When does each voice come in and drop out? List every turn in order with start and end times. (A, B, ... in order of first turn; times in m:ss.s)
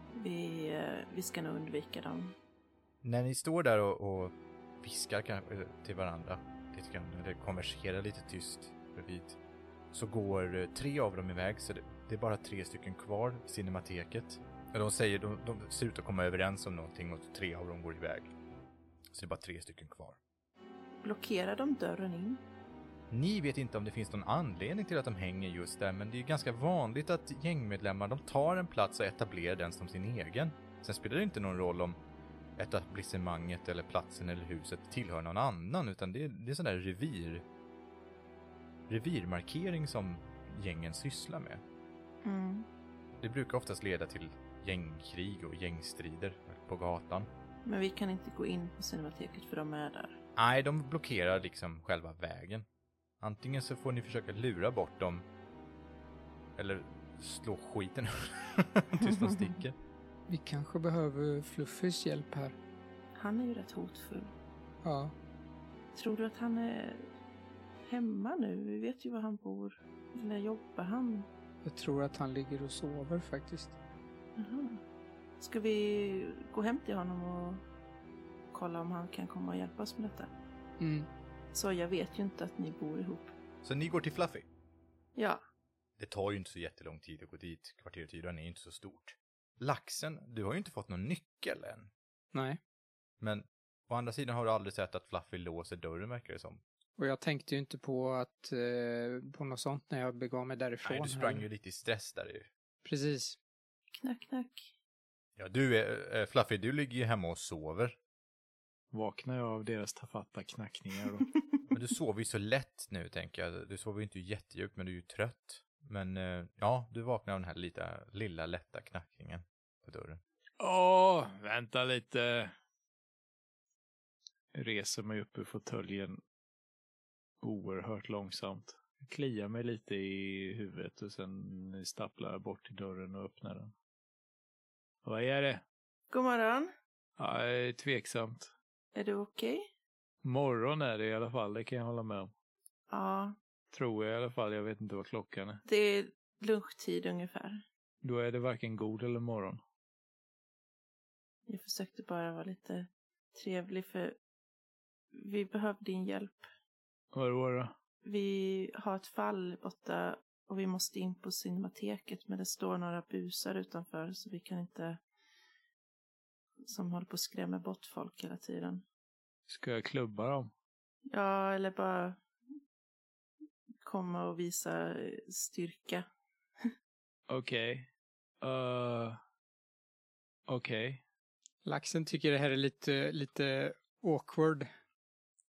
0:00.2-0:02.3 A
0:03.0-0:09.4 B
0:09.9-0:18.3 B
0:19.1-0:20.2 B
0:21.0-0:22.4 A
0:23.1-0:32.0 B
0:32.6-0:37.4 B
0:38.9-0:41.6 B
0:42.2-0:42.7 A
0:43.2-0:47.3 B
0:47.6-0:50.2 A
0:50.4-0:52.6 B
0:53.2-0:55.2 B
0:56.6-0:59.7 B
0:59.0-0:59.5 A
1:00.3-1:02.6 C
1:03.1-1:04.3 A
1:04.8-1:05.1 C
1:05.9-1:07.0 A
1:07.8-1:11.3 A
1:11.6-1:13.7 C
1:14.4-1:14.8 A
1:15.4-1:17.6 A
1:18.5-1:20.3 A
1:20.8-1:21.1 C
1:21.5-1:23.3 A
1:23.6-1:24.5 B
1:25.2-1:25.4 A
1:26.0-1:31.9 B
1:32.3-1:32.6 C
1:33.2-1:36.6 B
1:37.0-1:41.4 C
1:40.8-1:42.5 B
1:42.8-1:43.4 C
1:44.0-1:44.7 A
1:45.4-1:48.0 B
1:48.9-1:51.3 D
1:51.7-2:00.2 B
2:00.6-2:02.5 D
2:04.5-2:06.2 D
2:07.4-2:13.7 D
2:15.0-2:15.6 D
2:16.1-2:16.7 A
2:17.2-2:18.5 D
2:18.9-2:19.6 A
2:20.2-2:22.3 D
2:22.9-2:23.4 A
2:23.7-2:25.6 D
2:25.6-2:27.6 A
2:28.0-2:29.6 D
2:31.5-2:34.2 A
2:35.1-2:36.5 A
2:37.1-2:37.7 D
2:38.0-2:45.0 A
2:46.7-2:48.8 A
2:49.5-2:50.5 D
2:51.1-2:52.2 A
2:53.8-2:56.0 A
2:57.3-2:57.9 D
2:58.4-2:59.2 D
3:00.5-3:01.0 D
3:01.6-3:04.7 C